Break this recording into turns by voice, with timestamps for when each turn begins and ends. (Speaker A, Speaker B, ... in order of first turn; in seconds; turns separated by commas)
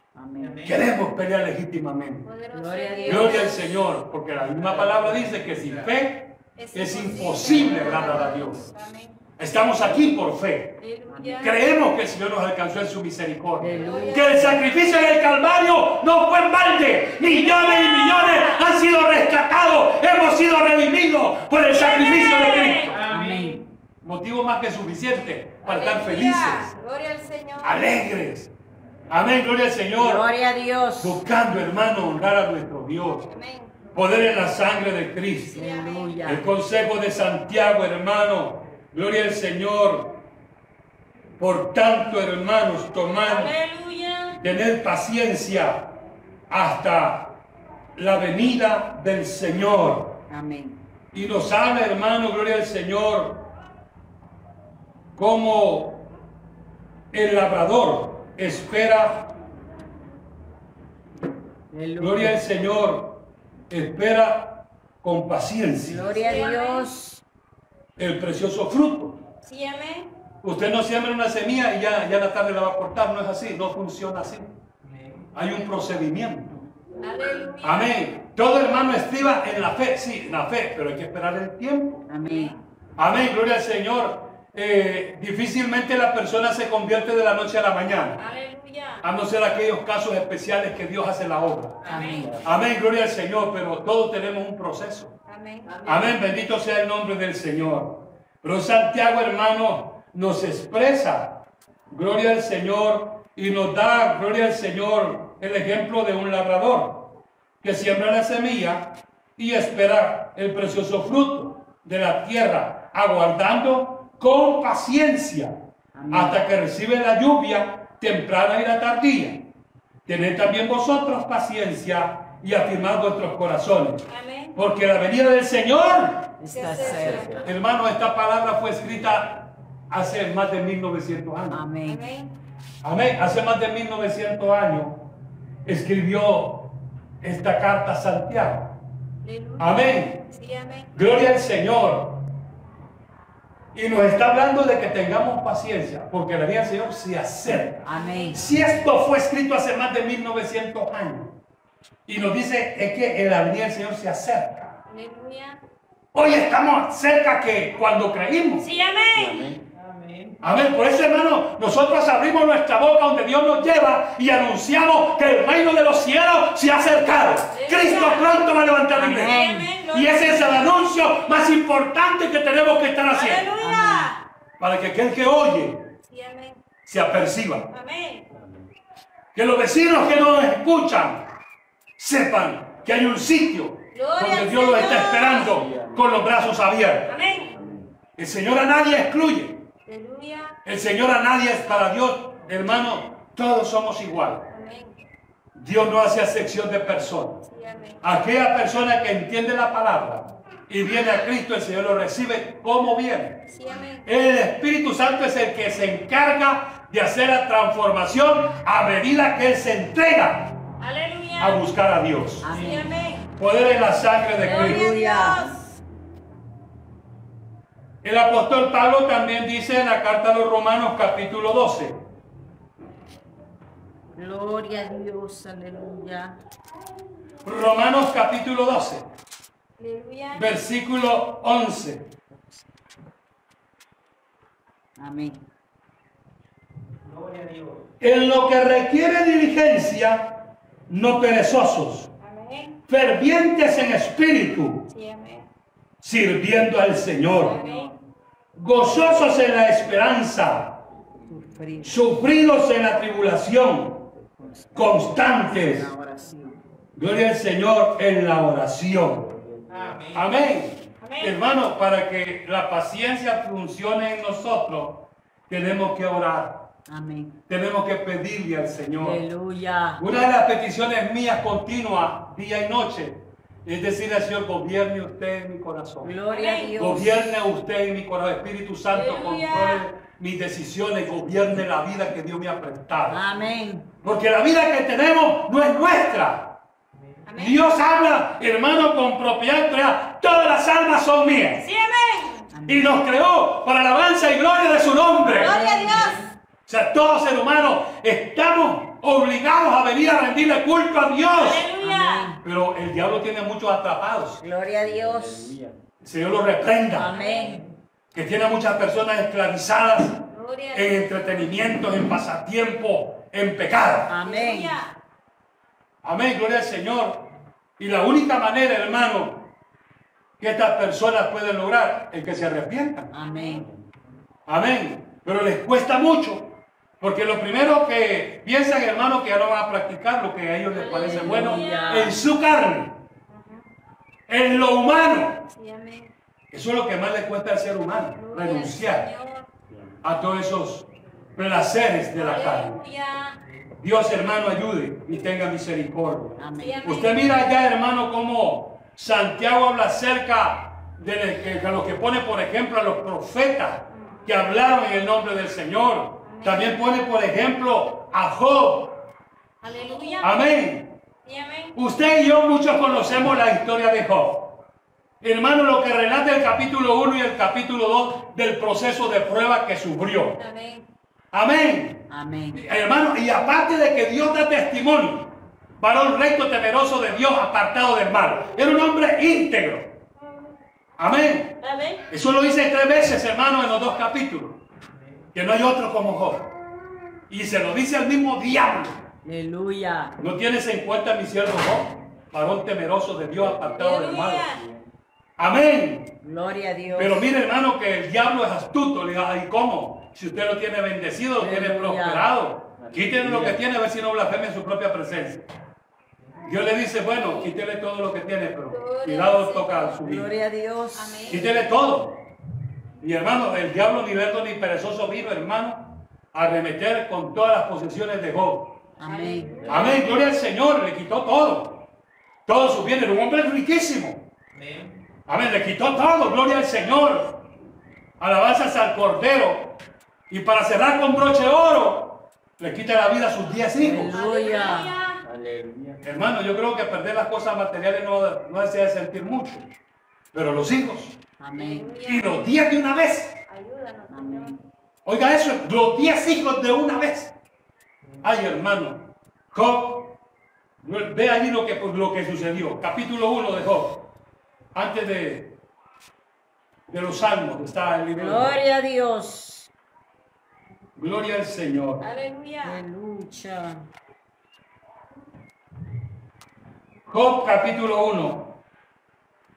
Speaker A: 0.1-0.7, Speaker B: 0.6-2.3, Speaker C: 2.2-3.8, Speaker A: 2.5-3.5, Speaker B: 3.0-8.7, Speaker C: 6.6-9.2, Speaker B: 9.4-10.8, Speaker C: 10.8-11.6, Speaker A: 11.1-11.5, Speaker B: 11.4-23.0, Speaker A: 13.6-14.6, Speaker C: 13.7-14.9, Speaker C: 17.2-18.6, Speaker C: 21.7-23.0, Speaker A: 23.1-23.6, Speaker B: 24.0-26.7, Speaker C: 25.6-27.8, Speaker B: 27.6-28.5, Speaker B: 29.1-30.3, Speaker A: 29.9-31.2, Speaker B: 31.0-33.3, Speaker C: 33.2-33.9, Speaker B: 33.9-35.6, Speaker C: 35.5-36.2, Speaker A: 35.5-36.5, Speaker B: 36.2-40.1, Speaker B: 41.4-43.5, Speaker C: 43.2-44.4, Speaker B: 44.4-45.9, Speaker B: 46.5-47.3, Speaker B: 48.0-50.1, Speaker A: 50.3-50.8, Speaker B: 51.1-53.4, Speaker B: 55.1-56.0, Speaker B: 57.1-59.3, Speaker A: 61.7-62.4, Speaker B: 62.0-63.2, Speaker B: 63.7-66.1, Speaker A: 65.8-67.2, Speaker C: 66.1-66.9, Speaker B: 68.0-69.2, Speaker C: 69.4-70.1, Speaker B: 70.4-74.5, Speaker B: 75.3-76.5, Speaker C: 77.0-78.1, Speaker B: 77.6-82.0, Speaker A: 82.1-82.5, Speaker C: 82.3-82.5, Speaker B: 83.0-88.2, Speaker C: 88.2-89.0, Speaker B: 89.0-91.9, Speaker C: 91.8-92.3, Speaker A: 91.8-92.4, Speaker D: 92.2-92.5, Speaker B: 92.4-95.1, Speaker C: 95.3-95.9, Speaker B: 95.8-101.3, Speaker B: 101.9-107.1, Speaker B: 107.6-115.5, Speaker A: 115.9-116.4, Speaker B: 116.1-119.4, Speaker B: 120.0-126.3, Speaker C: 124.1-124.5, Speaker A: 126.4-127.5, Speaker C: 126.5-127.5, Speaker D: 126.8-127.4, Speaker B: 127.4-131.6, Speaker A: 131.5-132.0, Speaker C: 131.8-132.3, Speaker B: 132.8-135.0, Speaker B: 135.6-136.7, Speaker B: 137.2-138.7, Speaker C: 139.2-140.9, Speaker B: 139.6-140.2, Speaker B: 140.9-142.2, Speaker B: 143.7-151.3, Speaker A: 147.8-148.4, Speaker C: 147.9-148.4, Speaker B: 152.1-154.8, Speaker C: 154.9-155.6, Speaker B: 156.1-158.7, Speaker C: 158.6-159.4, Speaker D: 159.1-159.6, Speaker B: 160.4-173.5, Speaker C: 167.5-168.4, Speaker A: 168.9-169.7, Speaker C: 169.1-170.8, Speaker C: 173.1-174.2, Speaker A: 173.6-174.1, Speaker B: 174.6-175.9, Speaker C: 176.1-176.6, Speaker B: 176.8-177.7, Speaker C: 177.7-178.2, Speaker D: 178.3-178.7, Speaker B: 179.3-181.2, Speaker B: 182.0-187.2, Speaker C: 183.9-185.6, Speaker D: 185.5-186.2, Speaker C: 187.1-187.6, Speaker D: 187.5-187.9, Speaker B: 188.2-189.6, Speaker C: 189.8-190.6, Speaker B: 190.6-194.5, Speaker C: 194.5-195.0, Speaker B: 195.5-197.4, Speaker C: 197.4-198.0, Speaker B: 198.0-203.4, Speaker C: 203.5-204.1, Speaker B: 204.0-210.6, Speaker C: 210.8-211.6, Speaker B: 211.4-212.5, Speaker A: 212.4-212.9, Speaker C: 212.5-213.3, Speaker B: 213.4-214.9, Speaker C: 214.4-215.6, Speaker A: 214.4-215.6, Speaker B: 218.0-222.0, Speaker A: 224.2-226.4, Speaker B: 227.4-229.1, Speaker C: 229.8-230.5, Speaker B: 230.3-232.1, Speaker A: 235.0-235.4, Speaker D: 237.2-237.7, Speaker B: 238.0-242.1, Speaker C: 242.2-242.8, Speaker B: 242.9-244.8, Speaker C: 244.9-245.5, Speaker B: 246.0-247.6, Speaker C: 247.3-247.9, Speaker A: 247.4-248.0, Speaker B: 248.6-250.8, Speaker A: 251.3-252.1, Speaker B: 251.8-254.0, Speaker A: 254.4-256.6, Speaker B: 254.7-255.9, Speaker B: 256.9-259.3, Speaker D: 259.2-260.1, Speaker B: 260.1-266.6, Speaker C: 261.0-261.4, Speaker A: 266.9-267.4, Speaker B: 267.5-269.2, Speaker A: 269.0-270.0, Speaker B: 270.0-276.1, Speaker A: 276.0-277.4, Speaker C: 276.3-276.7, Speaker B: 276.8-283.2, Speaker C: 278.9-279.8, Speaker A: 283.1-283.9, Speaker B: 284.0-286.5, Speaker C: 287.2-287.6, Speaker B: 287.4-291.6, Speaker C: 291.6-292.4, Speaker A: 292.5-292.9, Speaker B: 292.7-295.6, Speaker A: 295.2-296.3, Speaker C: 295.3-296.2, Speaker B: 296.7-301.7, Speaker C: 301.3-302.3, Speaker A: 301.8-302.4, Speaker B: 302.4-304.4, Speaker A: 304.4-305.6, Speaker D: 304.8-305.8, Speaker B: 306.0-307.1, Speaker A: 306.9-307.7, Speaker C: 307.1-307.6, Speaker B: 308.1-310.2, Speaker C: 310.3-311.7, Speaker B: 310.7-314.1, Speaker A: 314.1-314.8, Speaker C: 314.2-314.9, Speaker B: 316.0-317.2, Speaker B: 317.8-319.4, Speaker B: 320.4-323.1, Speaker A: 323.1-323.8, Speaker C: 323.2-323.6, Speaker B: 324.5-332.9, Speaker C: 330.7-332.0, Speaker A: 330.8-332.1, Speaker C: 333.3-333.6, Speaker B: 334.3-335.4, Speaker C: 335.5-336.1, Speaker B: 336.5-339.1, Speaker C: 338.1-339.5, Speaker B: 340.0-342.8, Speaker C: 342.1-343.4, Speaker B: 343.8-359.0, Speaker A: 346.4-346.9, Speaker C: 346.6-347.2, Speaker C: 353.9-354.2, Speaker C: 356.2-356.8, Speaker C: 359.6-360.3, Speaker B: 360.2-360.9, Speaker C: 361.2-361.7, Speaker B: 361.7-364.5, Speaker B: 365.2-370.4, Speaker C: 370.4-370.9, Speaker B: 371.3-372.0, Speaker A: 372.1-372.6, Speaker B: 372.5-379.9, Speaker B: 381.0-381.6, Speaker C: 381.6-382.0, Speaker B: 382.1-384.6, Speaker B: 385.3-386.5, Speaker B: 387.3-389.0, Speaker A: 389.2-390.2, Speaker B: 390.2-394.5, Speaker D: 393.4-393.8, Speaker C: 393.7-394.6, Speaker D: 394.5-394.9, Speaker B: 395.4-396.1, Speaker A: 396.2-397.3, Speaker B: 396.9-405.5, Speaker A: 401.4-402.3, Speaker D: 402.8-403.6, Speaker B: 406.4-410.3, Speaker C: 407.1-407.5, Speaker C: 408.7-410.0, Speaker A: 410.0-411.4, Speaker C: 410.9-411.6, Speaker B: 411.3-412.2, Speaker B: 413.0-418.8, Speaker A: 419.0-419.6, Speaker C: 419.0-420.0, Speaker D: 419.6-420.1, Speaker B: 419.6-421.8, Speaker B: 422.4-424.2, Speaker B: 425.3-427.4, Speaker B: 428.2-429.7, Speaker B: 430.3-434.2, Speaker A: 433.8-434.9, Speaker C: 434.1-435.2, Speaker D: 435.2-436.1, Speaker B: 436.0-439.7, Speaker B: 440.3-441.2, Speaker A: 441.4-441.9, Speaker C: 441.5-442.5, Speaker B: 442.0-443.4, Speaker C: 443.5-444.6, Speaker A: 444.1-444.6, Speaker B: 445.0-447.3, Speaker B: 448.2-450.1, Speaker B: 450.8-454.0, Speaker B: 454.7-455.5, Speaker B: 456.9-458.6, Speaker A: 458.1-459.7, Speaker B: 460.9-462.0, Speaker C: 462.0-462.8, Speaker A: 462.6-463.9, Speaker B: 467.1-468.5